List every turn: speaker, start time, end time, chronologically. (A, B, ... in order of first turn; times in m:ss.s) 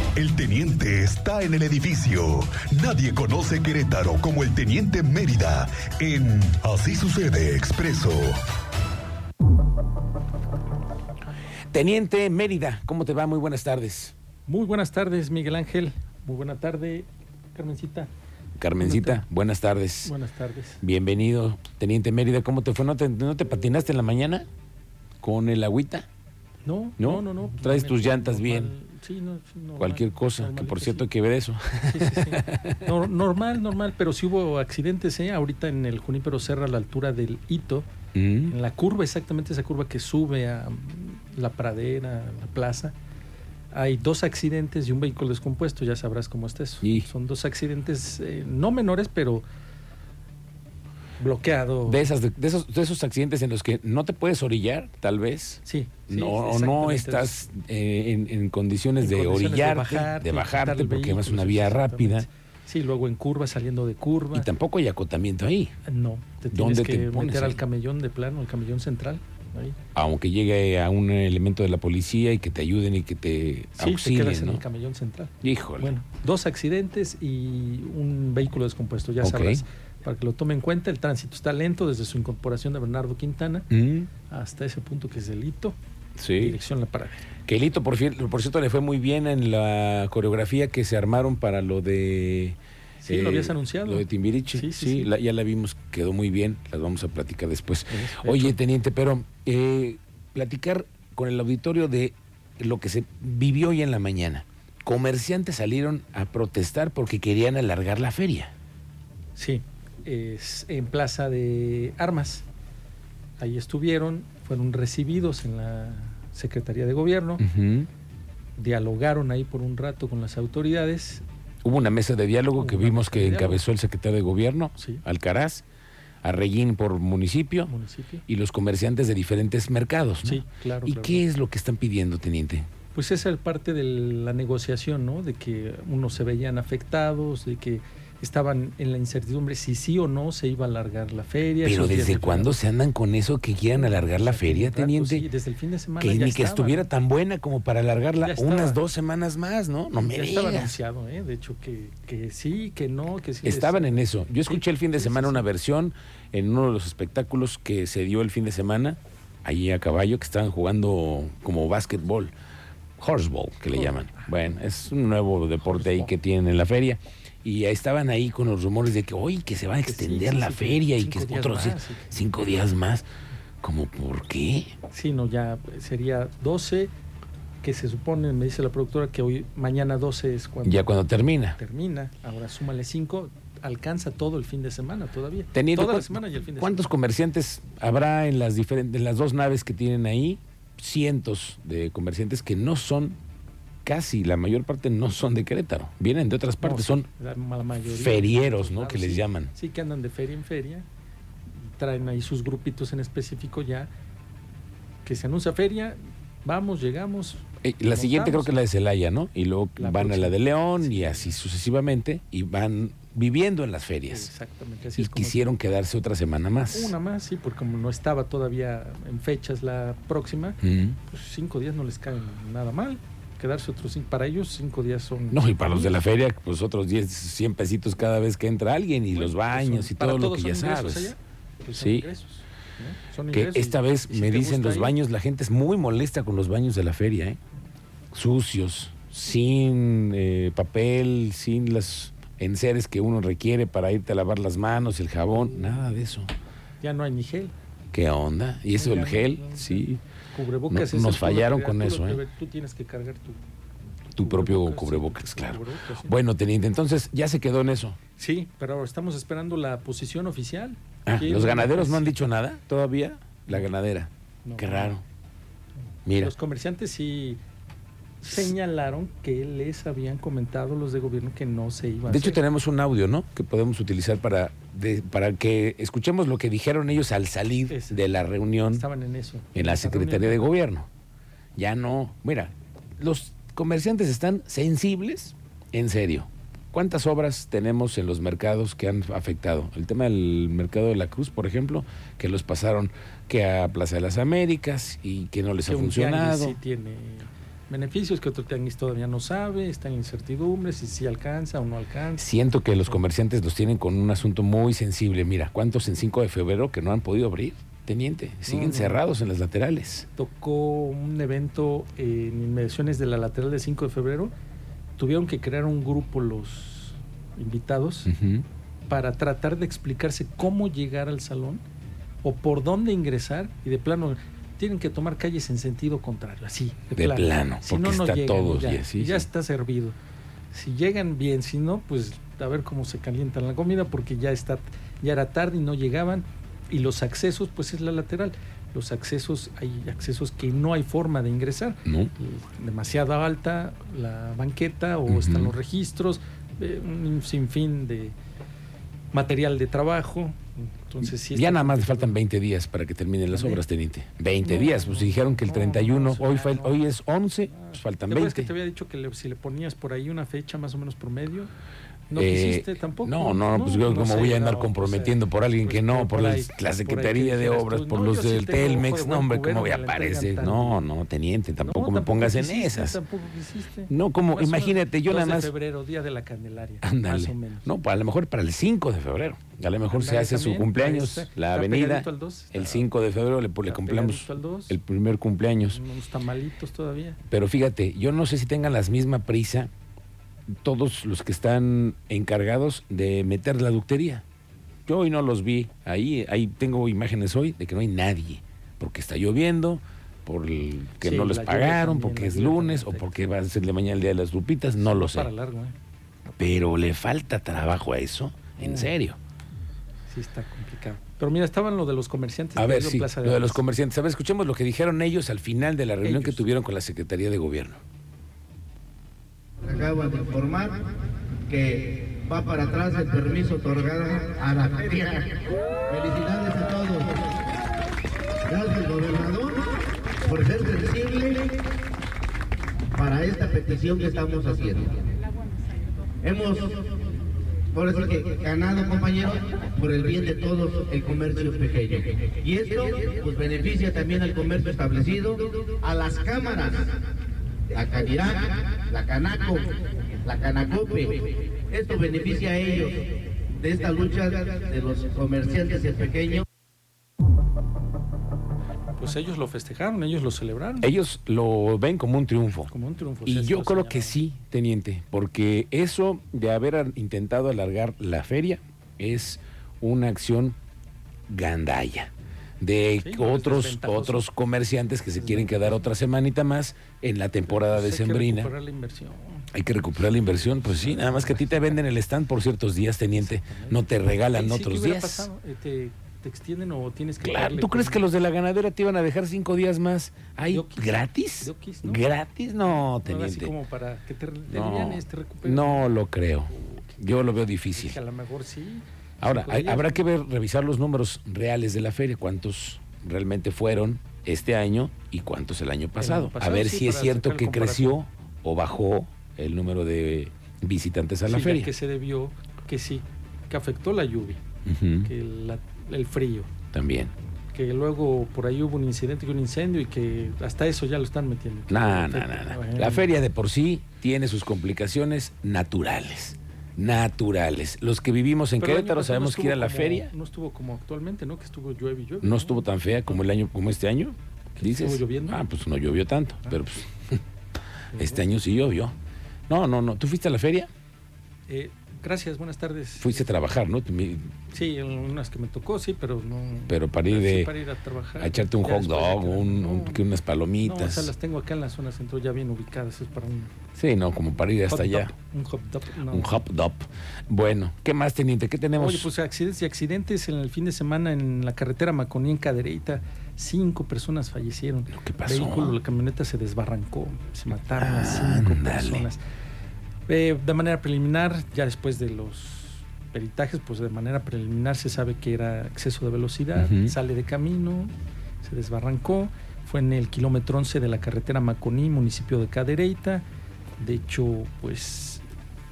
0:00.2-0:08.4 A
0:11.7-0:14.1 B
0:14.4-0:18.1 C
0:18.6-0:20.1 B
0:18.8-0:19.2 C
0:20.0-0:20.8 C
0:20.8-0:24.4 B
0:25.2-0:26.0 B
0:26.6-0:31.1 C
0:27.0-0:28.7 B
0:29.8-0:32.8 B
0:31.8-0:37.9 C
0:38.1-0:38.5 B
0:38.5-0:42.9 C
0:43.7-0:49.4 C
0:46.8-0:47.1 B
0:51.2-0:52.0 C
0:51.8-1:02.3 B
0:55.6-0:57.3 C
0:59.0-1:04.5 C
1:04.3-1:05.7 B
1:05.8-1:09.8 C
1:06.5-1:07.6 B
1:09.9-1:14.6 B
1:13.8-1:23.7 C
1:15.4-1:15.9 B
1:19.2-1:19.6 B
1:23.7-1:24.1 B
1:24.2-1:25.8 C
1:26.2-1:26.6 B
1:26.4-1:27.3 C
1:27.4-1:48.5 B
1:33.0-1:35.1 C
1:37.9-1:38.6 C
1:49.3-1:52.4 C
1:53.4-1:57.4 C
1:57.4-1:57.9 B
1:58.6-2:01.2 C
2:01.6-2:05.6 B
2:02.6-2:03.6 C
2:04.7-2:05.0 C
2:06.2-2:07.7 B
2:07.6-2:08.2 C
2:08.3-2:12.7 B
2:10.2-2:11.2 C
2:12.9-2:22.5 C
2:21.6-2:25.2 B
2:23.7-2:26.9 C
2:26.0-2:30.8 B
2:28.2-2:28.8 C
2:30.0-2:35.4 C
2:33.4-2:42.3 B
2:43.0-2:53.0 B
2:43.7-2:44.5 C
2:45.6-2:46.1 C
2:49.8-2:52.1 C
2:53.6-2:54.7 B
2:54.9-2:56.9 C
2:57.6-3:06.9 C
3:00.6-3:01.6 B
3:05.5-3:13.2 B
3:13.8-3:17.1 B
3:16.6-3:20.8 C
3:17.8-3:19.5 B
3:21.6-3:23.9 C
3:25.0-3:28.6 C
3:27.6-3:34.3 B
3:29.8-3:31.4 C
3:34.1-3:35.5 C
3:35.0-3:36.9 B
3:36.7-3:46.0 C
3:40.6-3:41.0 B
3:45.3-3:51.1 B
3:49.1-3:55.0 C
3:51.7-3:52.1 B
3:53.3-3:57.4 B
3:58.1-4:06.3 B
4:05.3-4:05.9 C
4:06.8-4:07.5 C
4:07.9-4:10.0 B
4:08.7-4:13.4 C
4:10.7-4:12.2 B
4:14.1-4:18.0 B
4:14.2-4:16.2 C
4:18.2-4:22.2 C
4:21.0-4:25.0 B
4:24.4-4:24.9 C
4:26.0-4:26.3 B
4:26.1-4:27.4 C
4:28.2-4:32.4 C
4:32.1-4:38.8 B
4:37.7-4:38.0 C
4:38.7-4:40.4 C
4:39.5-4:40.9 B
4:41.6-4:56.6 B
4:55.6-5:02.3 C
5:02.2-5:10.0 B
5:08.5-5:09.0 C
5:10.2-5:14.3 C
5:15.0-5:18.1 C
5:18.1-5:18.4 B
5:18.9-5:21.6 C
5:22.2-5:30.0 C
5:27.0-5:29.2 B
5:30.5-5:48.2 C
5:41.8-5:42.1 B
5:45.1-5:45.5 B
5:49.1-5:52.2 C
5:51.2-5:58.5 B
5:53.3-5:53.6 C
5:54.4-5:56.8 C
5:57.4-6:01.5 C
6:02.1-6:10.8 C
6:02.1-6:13.0 B
6:11.6-6:17.7 C
6:13.9-6:15.5 B
6:16.8-6:25.8 B
6:19.9-6:22.9 C
6:23.6-6:24.8 C
6:25.7-6:27.2 C
6:27.3-6:29.7 B
6:30.6-6:34.2 B
6:34.8-6:45.3 B
6:41.0-6:43.2 C
6:44.8-6:45.7 C
6:46.4-6:49.2 B
6:48.6-6:48.9 C
6:50.1-6:53.6 C
6:52.6-6:57.8 B
6:56.0-6:56.4 C
6:59.6-7:00.8 D
7:01.5-7:07.3 D
7:08.5-7:09.7 D
7:10.2-7:11.6 D
7:12.9-7:15.1 D
7:16.2-7:17.0 D
7:17.7-7:26.9 D
7:27.7-7:29.7 D
7:30.2-7:36.4 D
7:39.0-7:40.9 C
7:40.8-7:42.7 B
7:42.7-7:44.2 C
7:43.2-7:50.6 B
7:51.3-7:58.5 B
7:53.0-7:54.2 C
7:55.1-7:55.9 C
7:57.4-7:59.5 C
7:59.5-8:05.3 B
8:00.7-8:01.6 C
8:03.2-8:08.1 C
8:07.2-8:13.5 B
8:10.5-8:12.0 C
8:12.6-8:15.9 C
8:14.5-8:18.0 B
8:16.5-8:20.0 C
8:19.2-8:31.7 B
8:26.0-8:28.0 C
8:31.2-8:34.4 C
8:34.6-8:35.1 B
8:35.0-8:36.5 C
8:36.7-8:37.1 B
8:37.5-8:43.2 C
8:41.7-8:50.1 B
8:48.6-8:53.2 C
8:52.2-8:56.9 B
8:54.6-8:55.4 C
8:57.9-8:58.2 C
8:57.9-8:58.9 B
8:59.5-9:00.7 B
9:01.5-9:03.4 C
9:03.0-9:04.3 B
9:04.5-9:10.0 C
9:06.7-9:07.5 B
9:08.2-9:11.1 B
9:10.6-9:13.5 C
9:13.7-9:15.1 B
9:14.7-9:16.4 C
9:16.1-9:19.1 B
9:18.8-9:29.2 C
9:24.9-9:25.8 B
9:27.7-9:29.1 B
9:30.1-9:43.2 C
9:36.6-9:36.9 B
9:43.8-9:45.2 C